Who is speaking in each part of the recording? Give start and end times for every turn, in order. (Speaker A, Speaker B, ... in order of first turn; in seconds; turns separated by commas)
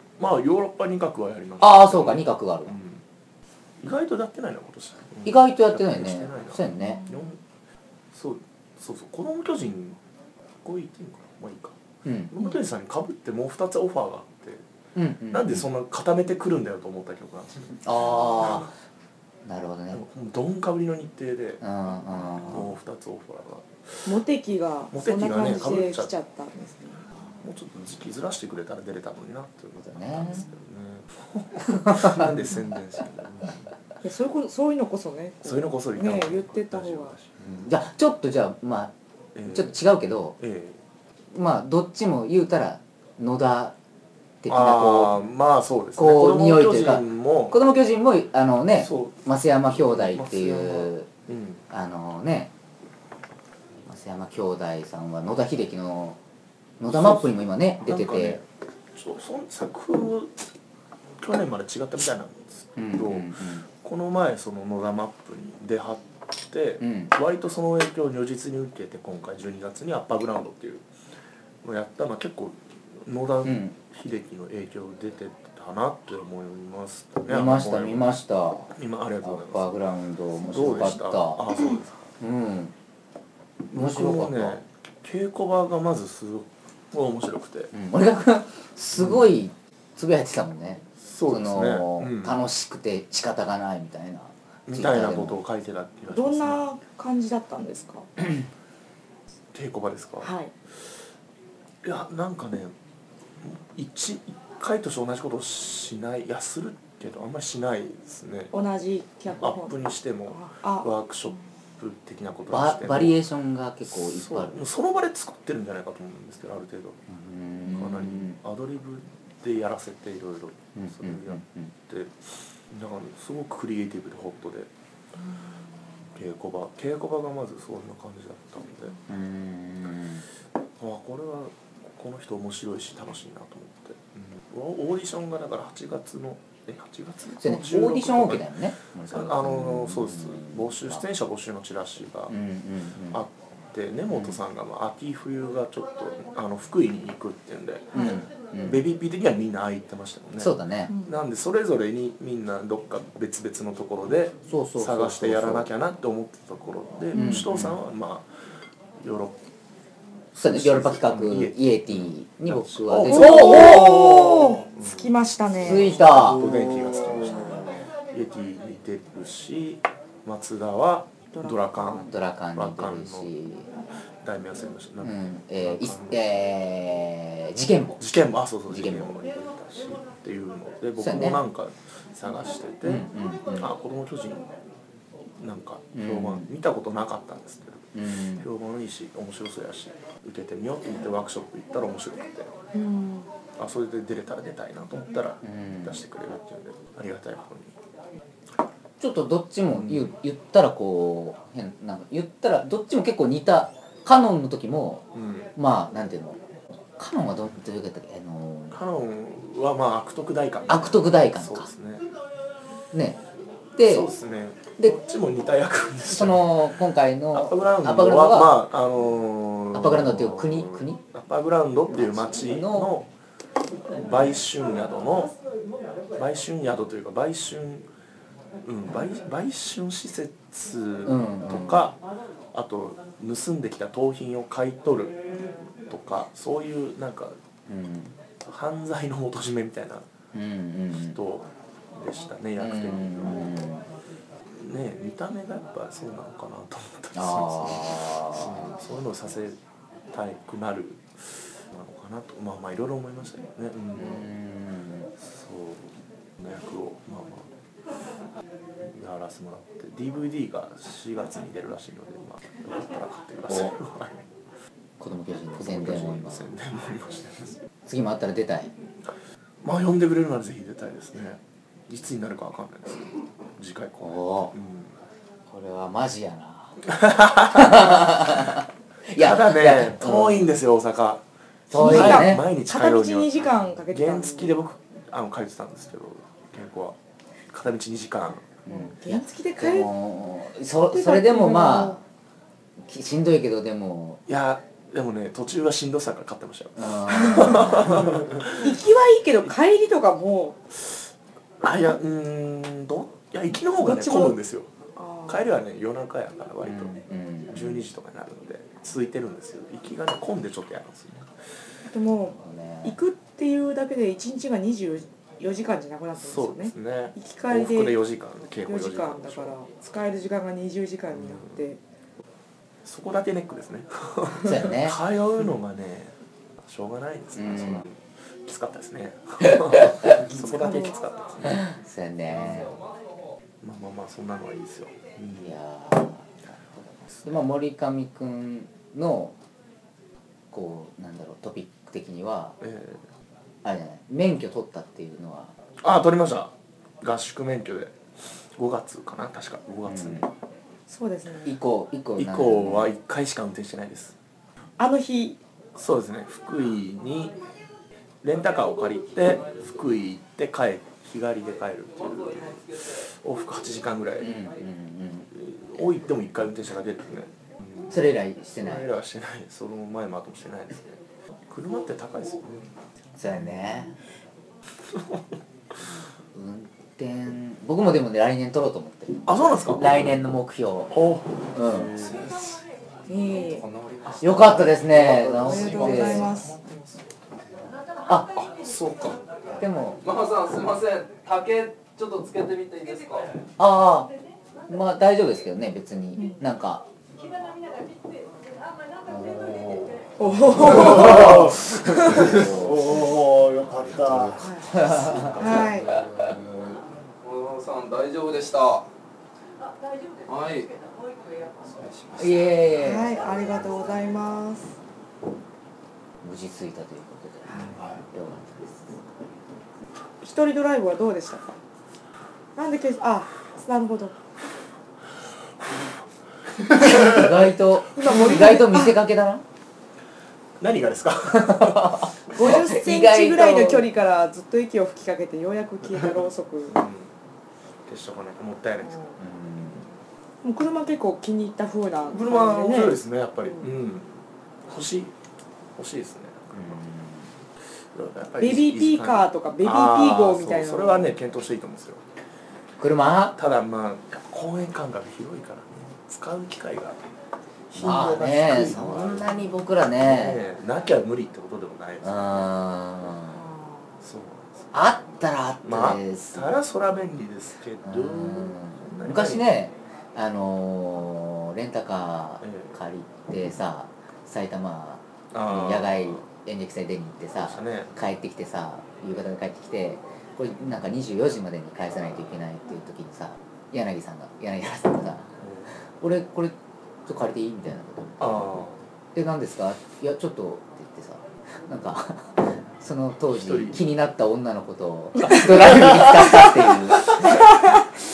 Speaker A: 0.2-3.0, Speaker B: 1.6-2.8, Speaker A: 3.8-7.4, Speaker B: 5.2-7.0, Speaker C: 6.9-7.3, Speaker A: 8.1-10.0, Speaker A: 10.6-11.8, Speaker B: 12.1-12.3, Speaker A: 12.3-14.6, Speaker B: 15.0-15.6, Speaker A: 15.3-18.6, Speaker B: 17.8-18.7, Speaker B: 19.4-20.0, Speaker A: 19.9-21.6, Speaker B: 21.6-22.7, Speaker A: 22.5-24.1, Speaker C: 24.1-27.1, Speaker A: 24.9-26.1, Speaker A: 27.4-33.7, Speaker B: 29.8-30.4, Speaker B: 31.7-32.3, Speaker C: 34.0-37.1, Speaker A: 35.4-37.7, Speaker B: 37.6-38.9, Speaker A: 39.4-39.8, Speaker B: 39.5-40.4, Speaker A: 40.4-40.8, Speaker B: 41.3-43.8, Speaker B: 44.4-45.2, Speaker A: 44.5-47.6, Speaker B: 46.0-51.1, Speaker A: 48.8-51.6, Speaker B: 51.7-52.5, Speaker B: 53.9-56.2, Speaker B: 56.8-58.4, Speaker A: 56.9-58.5, Speaker A: 59.0-60.4, Speaker A: 61.2-70.9, Speaker B: 62.8-63.6, Speaker B: 66.8-67.1, Speaker A: 71.6-78.1, Speaker B: 73.5-73.7, Speaker B: 77.3-81.6, Speaker A: 78.7-79.7, Speaker A: 80.4-82.0, Speaker B: 82.2-82.7, Speaker A: 83.7-87.7, Speaker B: 83.7-84.6, Speaker B: 87.7-95.4, Speaker A: 89.0-89.4, Speaker A: 91.0-92.4, Speaker A: 94.7-96.6, Speaker C: 96.1-98.1, Speaker A: 99.5-100.3, Speaker C: 100.2-100.5, Speaker A: 101.8-102.7, Speaker A: 103.4-108.5, Speaker C: 108.5-109.8, Speaker A: 109.4-113.1, Speaker C: 110.3-110.9, Speaker B: 112.5-114.6, Speaker A: 113.9-117.0, Speaker B: 117.1-118.4, Speaker A: 117.7-122.1, Speaker B: 120.8-121.7, Speaker A: 122.7-124.7, Speaker A: 126.1-129.0, Speaker B: 129.1-130.2, Speaker A: 130.8-138.5, Speaker B: 137.4-141.0, Speaker A: 139.1-142.4, Speaker B: 142.3-143.2, Speaker A: 143.1-158.3, Speaker B: 144.1-144.4, Speaker B: 147.9-148.8, Speaker B: 150.4-150.9, Speaker C: 150.9-151.2, Speaker B: 154.5-155.7, Speaker C: 157.1-157.4, Speaker B: 157.1-157.8, Speaker A: 159.0-159.4, Speaker A: 160.3-173.3, Speaker B: 160.4-164.0, Speaker C: 163.0-166.0, Speaker B: 165.6-166.5, Speaker C: 171.3-172.0, Speaker B: 171.8-173.7, Speaker A: 174.2-176.2, Speaker B: 175.0-178.0, Speaker A: 178.0-184.6, Speaker B: 178.7-179.2, Speaker B: 181.0-181.4, Speaker B: 182.8-183.7, Speaker A: 185.4-192.5, Speaker B: 185.9-186.5, Speaker B: 187.9-188.4, Speaker C: 192.8-193.3, Speaker A: 193.6-197.7, Speaker B: 195.4-196.0, Speaker B: 199.0-206.4, Speaker A: 199.7-200.1, Speaker A: 205.1-205.5, Speaker B: 207.0-208.8, Speaker A: 208.7-212.1, Speaker B: 210.7-211.7, Speaker B: 212.9-213.2, Speaker B: 213.8-214.1, Speaker A: 213.8-216.7, Speaker B: 216.1-218.5, Speaker A: 217.3-223.1, Speaker B: 219.7-221.0, Speaker B: 221.9-222.9, Speaker A: 223.9-225.3, Speaker A: 226.2-227.9, Speaker A: 228.6-232.0, Speaker B: 231.1-231.9, Speaker A: 232.5-237.4, Speaker B: 237.7-238.1, Speaker A: 238.4-240.1, Speaker B: 240.3-241.2, Speaker A: 241.1-243.6, Speaker B: 242.6-243.8, Speaker A: 244.6-249.6, Speaker B: 247.1-248.8, Speaker A: 250.1-254.3, Speaker B: 253.9-255.1, Speaker A: 255.2-257.5, Speaker A: 258.8-264.2, Speaker B: 265.0-266.5, Speaker A: 265.6-267.6, Speaker B: 267.9-268.7, Speaker A: 269.6-275.0, Speaker B: 274.0-274.5, Speaker B: 275.5-280.5, Speaker A: 276.9-278.3, Speaker A: 279.1-287.0, Speaker B: 281.7-282.5, Speaker C: 281.7-284.5, Speaker A: 287.5-288.5, Speaker C: 288.6-289.9, Speaker B: 288.7-292.0, Speaker C: 290.9-292.0, Speaker B: 292.9-294.2, Speaker A: 294.3-298.7, Speaker B: 296.8-298.1, Speaker C: 297.1-297.6, Speaker C: 298.6-300.6, Speaker A: 301.6-304.7, Speaker C: 303.8-304.4, Speaker C: 305.0-305.5, Speaker A: 305.3-311.3, Speaker B: 306.6-307.8, Speaker C: 311.9-318.0, Speaker B: 312.4-313.0, Speaker A: 316.2-319.6, Speaker C: 318.7-321.8, Speaker A: 321.1-321.6, Speaker A: 322.9-331.6, Speaker B: 324.4-325.0, Speaker B: 327.4-327.8, Speaker B: 329.5-330.1, Speaker C: 330.4-331.0, Speaker B: 331.5-332.8, Speaker A: 332.3-332.8, Speaker A: 333.6-335.6, Speaker B: 335.4-336.3, Speaker A: 336.8-337.4, Speaker B: 337.2-339.4, Speaker B: 340.5-342.6, Speaker A: 342.6-343.1, Speaker B: 343.6-345.5, Speaker A: 345.8-348.0, Speaker A: 348.6-350.3, Speaker B: 349.9-350.3, Speaker C: 350.9-351.6, Speaker B: 351.4-352.9, Speaker A: 352.2-354.1, Speaker C: 354.8-355.4, Speaker A: 355.8-357.4, Speaker A: 358.2-364.4, Speaker D: 362.2-362.9, Speaker B: 364.2-365.3, Speaker A: 365.3-367.9, Speaker B: 367.9-368.9, Speaker A: 368.6-372.7, Speaker B: 373.2-374.0, Speaker A: 374.9-375.2, Speaker B: 376.3-380.9, Speaker A: 379.3-380.1, Speaker A: 380.9-382.4, Speaker B: 381.5-381.9, Speaker D: 382.1-382.3, Speaker C: 383.1-383.6, Speaker D: 383.1-387.0, Speaker B: 384.2-386.4, Speaker C: 385.4-386.5, Speaker A: 388.4-389.2, Speaker B: 389.6-390.0, Speaker D: 390.0-393.4, Speaker B: 393.6-394.1, Speaker B: 394.7-396.9, Speaker A: 399.3-400.0, Speaker C: 400.2-402.3, Speaker A: 400.6-402.4, Speaker E: 400.6-404.4, Speaker B: 402.1-402.8, Speaker C: 404.4-404.7, Speaker B: 404.7-405.6, Speaker D: 405.1-408.9, Speaker C: 405.3-405.9, Speaker D: 410.2-410.8, Speaker D: 411.6-412.8, Speaker B: 412.2-413.2, Speaker C: 412.8-414.7, Speaker B: 416.2-419.0, Speaker C: 417.5-417.8, Speaker C: 420.2-421.6, Speaker C: 422.6-424.1, Speaker B: 426.7-429.4, Speaker C: 427.9-429.0, Speaker A: 430.6-432.1, Speaker B: 431.3-433.9, Speaker C: 432.3-436.8, Speaker A: 436.7-437.1, Speaker A: 437.9-439.1, Speaker C: 438.8-439.2, Speaker B: 439.2-439.9, Speaker C: 440.4-443.0, Speaker A: 442.1-445.1, Speaker A: 445.8-446.8, Speaker B: 446.6-447.3, Speaker A: 447.9-452.0, Speaker C: 448.4-451.1, Speaker B: 452.8-453.4, Speaker A: 453.4-457.0, Speaker A: 457.7-462.5, Speaker B: 457.8-460.4, Speaker B: 462.0-463.4, Speaker C: 463.3-463.9, Speaker A: 464.0-464.7, Speaker B: 464.7-466.6, Speaker A: 465.6-469.5, Speaker B: 467.9-485.3, Speaker A: 472.4-472.8, Speaker A: 475.3-476.2, Speaker A: 477.4-477.9, Speaker A: 485.4-485.7, Speaker B: 485.9-486.6, Speaker B: 487.1-488.6, Speaker A: 488.2-488.8, Speaker B: 489.1-497.5, Speaker A: 493.3-493.9